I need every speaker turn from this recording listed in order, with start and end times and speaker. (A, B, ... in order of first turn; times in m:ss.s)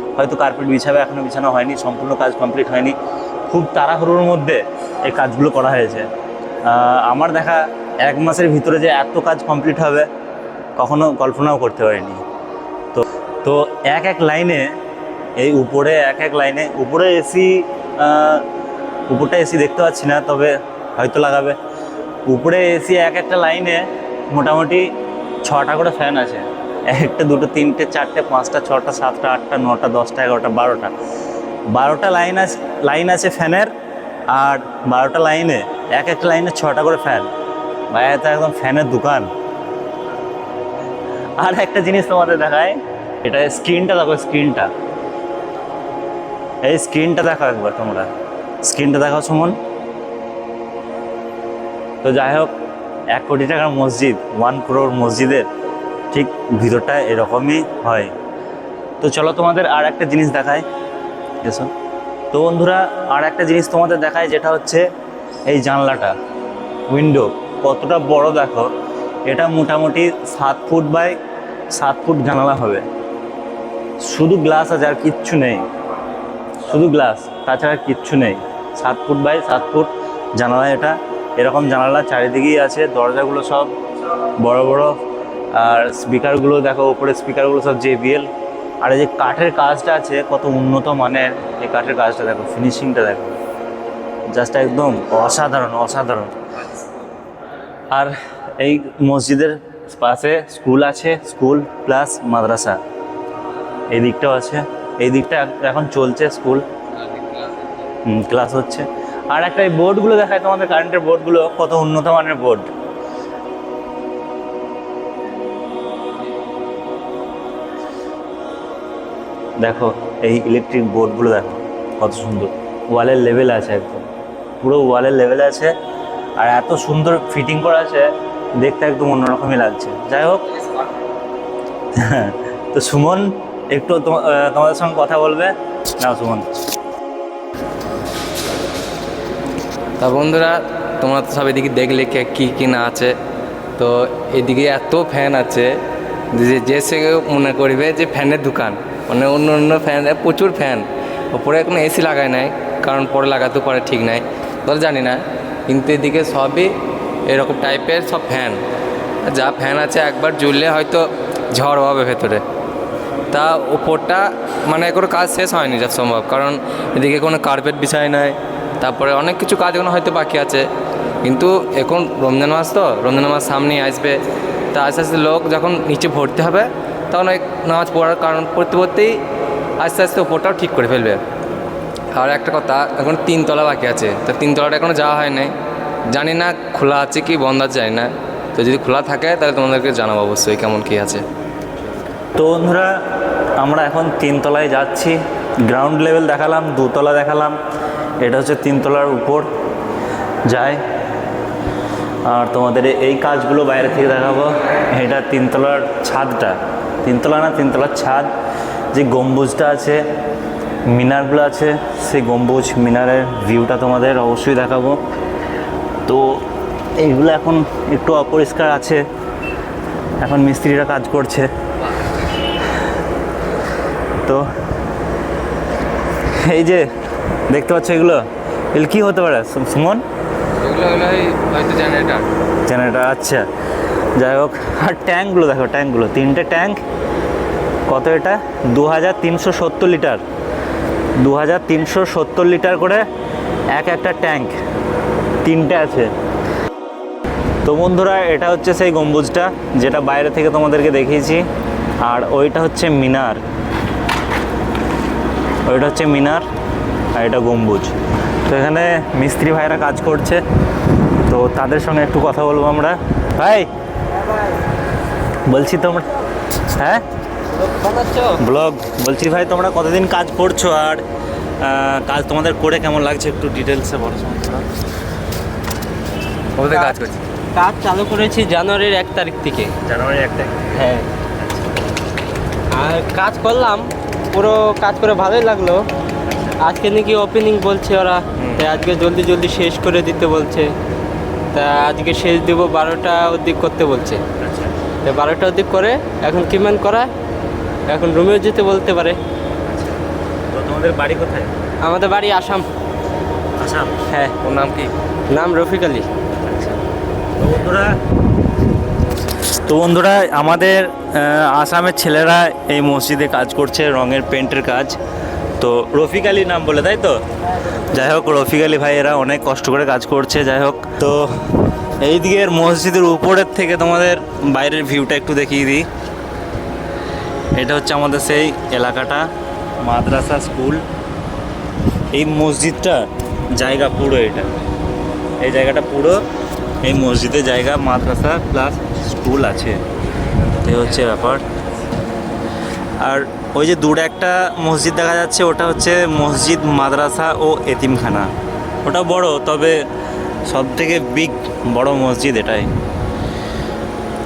0:00.2-0:03.0 A
0:03.5-0:06.1 A
0:06.6-0:10.1 A
0:10.8-0:12.2 A
0:12.9-0:14.7 A
0:15.4-0:18.4 A
0:19.1-0:21.6 A
0:22.3-0:24.9 A
0:25.4-0:30.9 A
0:31.7-0:33.7 A
0:34.3-0:37.3 A
0:37.9-0:39.3 A
0:41.4-0:44.7 A
0:46.6-0:48.1 A
0:48.6-0:49.6 A
0:52.0-0:52.5 A
0:53.1-0:55.5 A
0:56.1-0:58.1 A
0:59.0-1:00.6 A
1:01.4-1:01.7 A
1:02.3-1:04.9 A
1:05.5-1:06.1 A
1:06.9-1:08.7 A
1:09.3-1:11.2 A
1:11.7-1:12.8 A
1:14.0-1:15.6 A
1:16.7-1:23.7 A
1:24.4-1:24.9 A
1:25.5-1:28.3 A
1:28.8-1:33.4 A
1:34.3-1:36.3 A
1:37.9-1:42.8 A
1:43.9-1:46.6 A
1:46.9-1:47.6 B
1:48.0-1:52.7 A
1:59.6-2:04.0 A
2:04.6-2:05.7 A
2:06.4-2:10.5 A
2:11.9-2:16.5 A
2:20.0-2:23.1 B
2:23.8-2:25.8 B
2:26.3-2:36.7 B
2:37.3-2:38.6 B
2:39.2-2:42.4 B
2:43.3-2:50.6 B
2:51.2-2:54.2 B
2:54.7-2:59.2 B
2:59.8-3:01.2 B
3:02.1-3:05.5 B
3:06.1-3:11.2 B
3:12.4-3:13.0 A
3:13.6-3:17.6 A
3:18.2-3:19.5 A
3:20.5-3:20.8 A
3:22.2-3:28.3 A
3:28.9-3:30.0 A
3:30.9-3:35.0 A
3:36.0-3:36.4 A
3:37.0-3:39.0 A
3:40.2-3:41.5 A
3:41.8-3:42.1 B
3:46.3-3:46.9 A
3:47.5-3:50.0 A
3:50.6-3:52.3 B
3:52.6-3:53.4 A
3:54.2-3:56.8 A
3:57.9-4:00.2 A
4:01.2-4:03.0 A
4:03.7-4:04.6 A
4:05.4-4:06.1 A
4:07.6-4:11.5 A
4:12.0-4:13.4 A
4:15.6-4:16.4 A
4:17.1-4:17.9 A
4:18.5-4:20.4 A
4:21.3-4:23.7 A
4:25.5-4:26.1 A
4:26.7-4:27.0 A
4:27.5-4:28.4 C
4:28.4-4:31.0 A
4:31.6-4:34.6 A
4:36.6-4:37.2 B
4:37.5-4:39.7 C
4:39.8-4:41.7 A
4:42.7-4:45.9 C
4:46.3-4:46.6 A
4:46.6-4:50.7 C
4:51.5-4:54.2 C
4:54.4-4:54.7 A
4:55.0-4:57.1 C
4:57.9-4:59.2 C
5:00.5-5:01.5 A
5:01.8-5:02.7 C
5:03.6-5:04.0 A
5:04.1-5:04.3 C
5:04.4-5:04.9 B
5:05.3-5:06.1 C
5:06.4-5:06.8 A
5:07.4-5:08.0 A
5:09.6-5:15.0 A
5:15.6-5:17.2 A
5:17.9-5:21.4 A
5:22.0-5:25.9 A
5:27.5-5:29.3 A
5:29.8-5:30.8 A
5:32.1-5:34.5 A
5:35.4-5:36.2 A
5:36.8-5:39.8 A
5:40.6-5:41.4 A
5:43.0-5:48.3 A
5:48.8-5:49.8 A
5:50.4-5:52.7 A